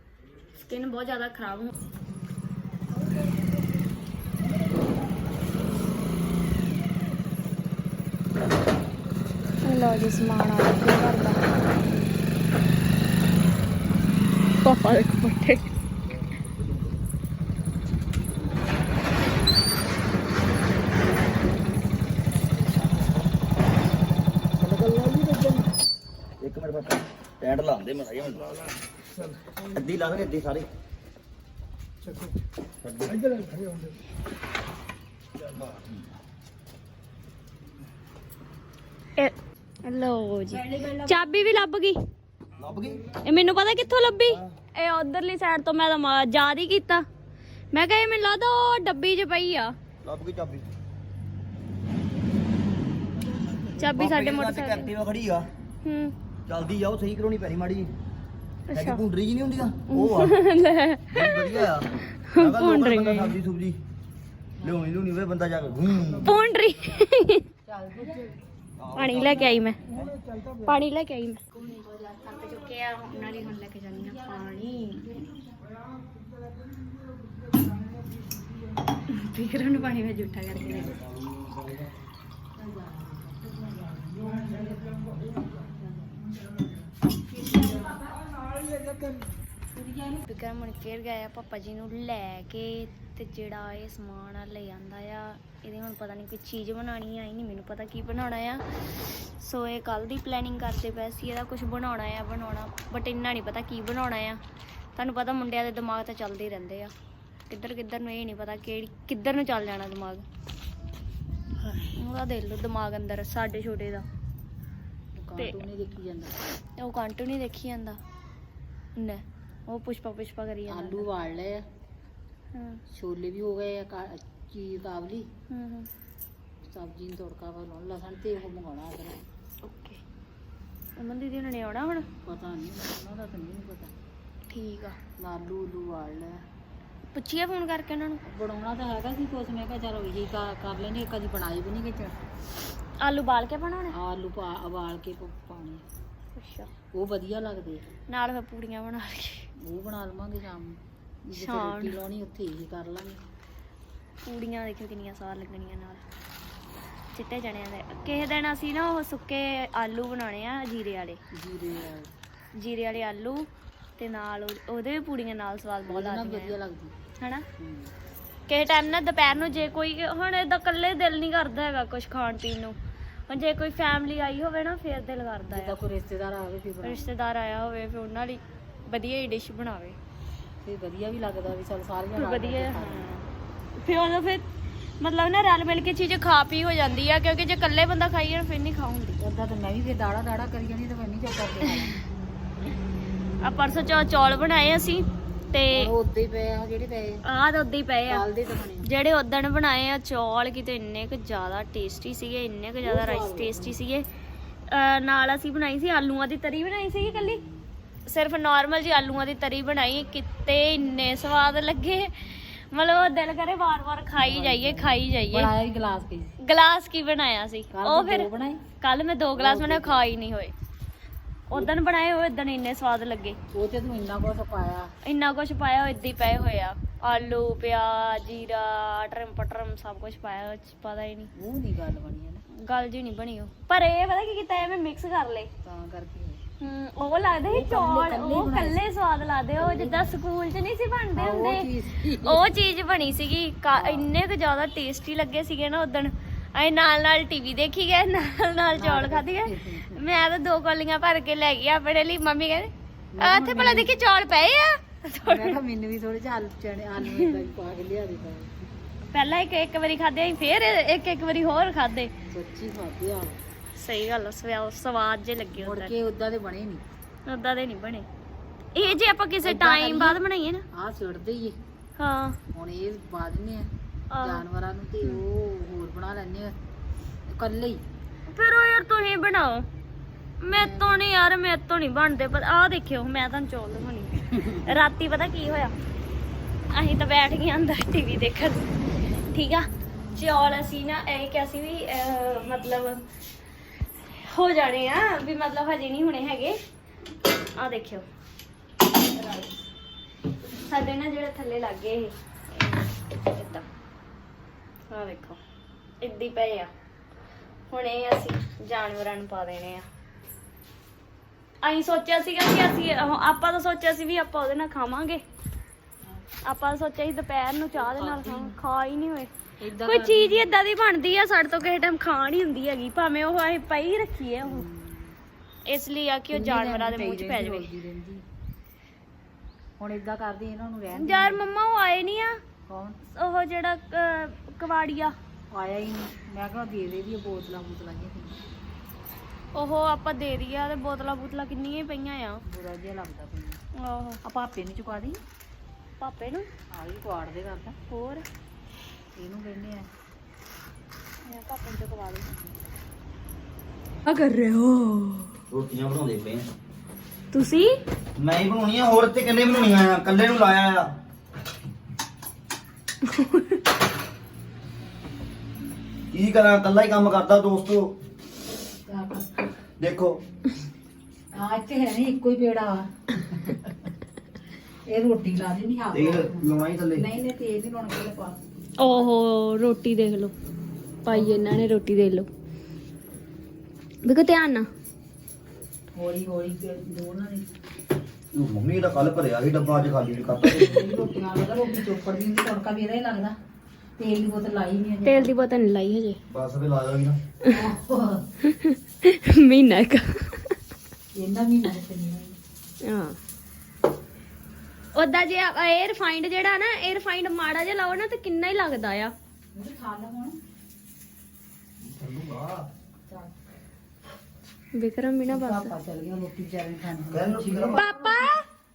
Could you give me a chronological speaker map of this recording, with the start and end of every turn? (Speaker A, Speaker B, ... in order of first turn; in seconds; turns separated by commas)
Speaker A: 0.7-1.7, Speaker A: 9.6-11.5, Speaker A: 14.6-15.7, Speaker B: 24.7-25.1, Speaker B: 26.4-28.6, Speaker B: 29.6-30.7, Speaker B: 32.8-33.3, Speaker B: 35.5-35.9, Speaker A: 39.2-42.0, Speaker C: 40.7-41.1, Speaker B: 42.6-43.1, Speaker A: 43.2-47.0, Speaker A: 47.7-49.8, Speaker B: 50.0-50.7, Speaker A: 53.8-54.9, Speaker B: 53.8-55.5, Speaker A: 55.9-56.1, Speaker B: 56.5-57.9, Speaker A: 58.7-59.0, Speaker B: 58.7-60.4, Speaker A: 59.9-61.7, Speaker B: 61.1-63.8, Speaker A: 62.3-63.4, Speaker B: 64.6-66.3, Speaker A: 66.2-67.5, Speaker C: 67.7-68.3, Speaker B: 68.8-69.6, Speaker A: 69.0-69.8, Speaker A: 70.7-71.4, Speaker C: 71.6-72.4, Speaker A: 72.3-75.1, Speaker C: 74.0-75.1, Speaker A: 79.1-81.0, Speaker C: 82.5-86.3, Speaker A: 87.3-88.0, Speaker C: 87.3-88.1, Speaker C: 89.8-90.2, Speaker A: 90.3-104.4, Speaker A: 105.0-106.9, Speaker A: 107.5-110.2, Speaker A: 112.0-114.0, Speaker C: 115.2-116.4, Speaker A: 116.8-118.0, Speaker A: 119.0-121.1, Speaker C: 120.7-121.6, Speaker A: 122.5-122.8, Speaker C: 122.9-125.3, Speaker A: 125.5-125.9, Speaker C: 126.7-129.2, Speaker A: 129.6-130.0, Speaker A: 131.0-132.1, Speaker C: 132.2-133.9, Speaker A: 134.5-135.0, Speaker C: 135.2-136.4, Speaker A: 137.1-138.2, Speaker C: 138.2-142.2, Speaker A: 143.0-144.0, Speaker C: 143.9-145.8, Speaker A: 146.4-146.7, Speaker C: 146.9-147.9, Speaker A: 148.1-149.5, Speaker C: 149.6-153.2, Speaker A: 151.3-152.0, Speaker A: 154.2-156.0, Speaker A: 157.1-161.2, Speaker C: 161.3-162.1, Speaker A: 162.6-163.5, Speaker A: 164.0-166.6, Speaker C: 165.9-167.0, Speaker A: 167.2-167.4, Speaker C: 167.6-167.9, Speaker A: 168.5-172.8, Speaker C: 169.4-169.7, Speaker A: 173.3-175.8, Speaker C: 175.5-177.1, Speaker A: 176.8-180.0, Speaker C: 180.6-183.1, Speaker A: 182.2-183.2, Speaker A: 183.8-184.4, Speaker A: 185.0-189.2, Speaker C: 189.2-192.0, Speaker A: 193.4-195.9, Speaker C: 195.7-197.2, Speaker A: 197.2-198.3, Speaker C: 198.1-198.9, Speaker A: 198.8-204.1, Speaker C: 202.8-203.8, Speaker A: 204.7-207.4, Speaker C: 207.0-207.6, Speaker A: 208.1-215.5, Speaker C: 214.2-216.3, Speaker A: 216.4-218.3, Speaker C: 217.7-218.6, Speaker A: 218.8-220.5, Speaker C: 219.3-220.0, Speaker A: 221.5-223.4, Speaker C: 223.5-224.9, Speaker A: 225.1-231.3, Speaker C: 231.4-232.4, Speaker A: 232.5-235.5, Speaker C: 235.6-236.4, Speaker A: 236.6-255.6, Speaker C: 237.5-238.8, Speaker C: 239.6-240.1, Speaker C: 241.2-242.4, Speaker C: 243.7-244.1, Speaker C: 248.7-250.0, Speaker C: 253.1-253.9, Speaker C: 255.2-258.7, Speaker A: 259.1-262.1, Speaker C: 262.3-263.4, Speaker A: 263.8-265.9, Speaker C: 265.6-266.8, Speaker A: 267.3-268.1, Speaker A: 268.8-270.7, Speaker C: 269.4-270.2, Speaker C: 270.7-271.6, Speaker A: 272.0-272.4, Speaker C: 272.5-276.6, Speaker A: 274.1-274.4, Speaker C: 277.3-277.8, Speaker A: 278.3-279.7, Speaker A: 280.4-285.7, Speaker C: 280.5-281.1, Speaker A: 286.7-288.8, Speaker A: 289.3-293.1, Speaker A: 294.1-296.6, Speaker A: 297.6-298.1, Speaker A: 298.9-299.6, Speaker A: 300.4-303.6, Speaker A: 304.9-305.4, Speaker A: 306.0-306.7, Speaker A: 307.7-309.9, Speaker A: 311.6-315.2, Speaker A: 316.4-324.6, Speaker C: 317.8-318.6, Speaker C: 319.6-320.5, Speaker C: 324.4-325.2, Speaker A: 325.7-327.7, Speaker C: 326.3-328.2, Speaker C: 329.8-331.4, Speaker A: 330.9-332.4, Speaker C: 332.7-333.0, Speaker A: 333.1-335.1, Speaker C: 335.5-338.4, Speaker A: 339.6-342.4, Speaker C: 342.5-343.6, Speaker A: 343.8-344.2, Speaker C: 344.2-345.2, Speaker A: 346.0-346.5, Speaker C: 346.7-347.8, Speaker A: 347.9-348.3, Speaker C: 349.2-349.9, Speaker A: 351.2-352.3, Speaker A: 354.1-355.3, Speaker B: 355.5-356.5, Speaker A: 357.3-357.8, Speaker B: 358.2-360.9, Speaker A: 363.0-363.6, Speaker B: 366.1-368.0, Speaker C: 368.9-369.5, Speaker B: 369.8-370.2, Speaker C: 371.3-373.9, Speaker C: 374.9-379.1, Speaker B: 375.9-377.1, Speaker A: 378.8-380.3, Speaker A: 381.1-382.3, Speaker C: 381.1-381.4, Speaker A: 384.0-384.7, Speaker C: 386.0-387.5, Speaker B: 388.3-390.8, Speaker C: 390.4-393.4, Speaker C: 394.0-395.3, Speaker A: 395.1-396.2, Speaker B: 396.3-397.2, Speaker C: 397.5-398.3, Speaker A: 398.5-400.5, Speaker C: 401.1-402.4, Speaker A: 402.8-403.2, Speaker A: 404.9-409.1, Speaker C: 409.5-410.4, Speaker B: 411.8-412.7, Speaker C: 413.1-413.3, Speaker A: 414.7-415.7, Speaker C: 415.3-418.1, Speaker B: 417.1-417.8, Speaker A: 417.8-418.4